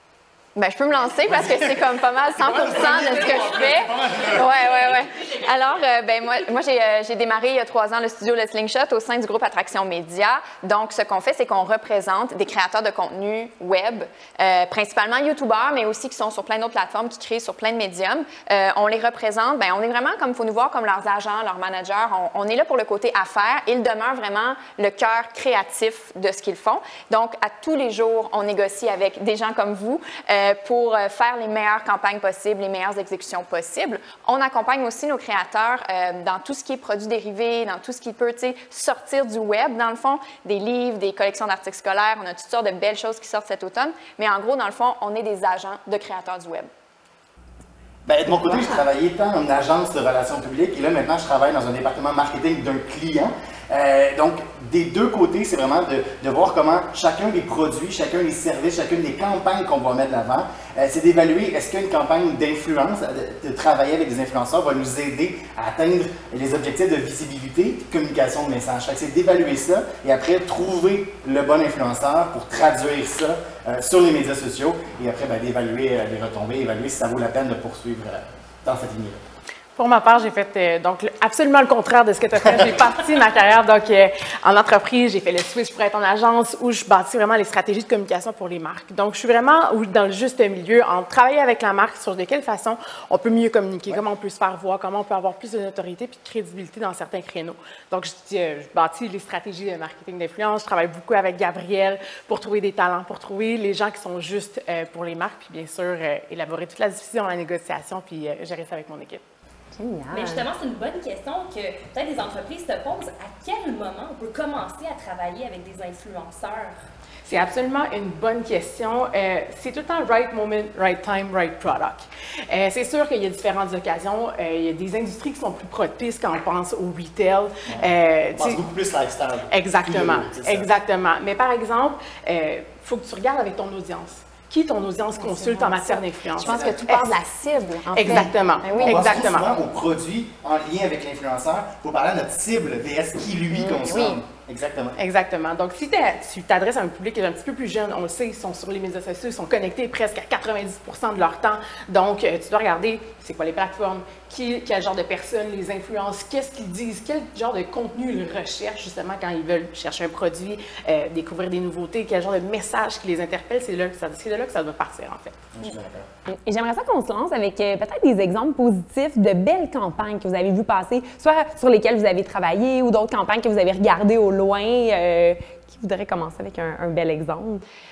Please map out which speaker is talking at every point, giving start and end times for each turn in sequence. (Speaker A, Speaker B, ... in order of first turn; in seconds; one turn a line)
Speaker A: 0.6-46.7
Speaker B: 1.2-5.0
Speaker C: 3.0-5.8
Speaker B: 48.0-79.2
Speaker D: 48.5-48.8
Speaker E: 79.8-109.2
Speaker D: 109.8-110.4
Speaker C: 110.1-116.8
Speaker E: 117.2-128.6
Speaker B: 127.7-130.7
Speaker E: 129.5-137.2
Speaker A: 135.4-139.2
Speaker B: 136.4-136.8
Speaker E: 137.9-139.5
Speaker B: 138.1-144.9
Speaker A: 143.6-144.2
Speaker E: 144.9-165.5
Speaker B: 165.5-166.1
Speaker D: 166.3-177.6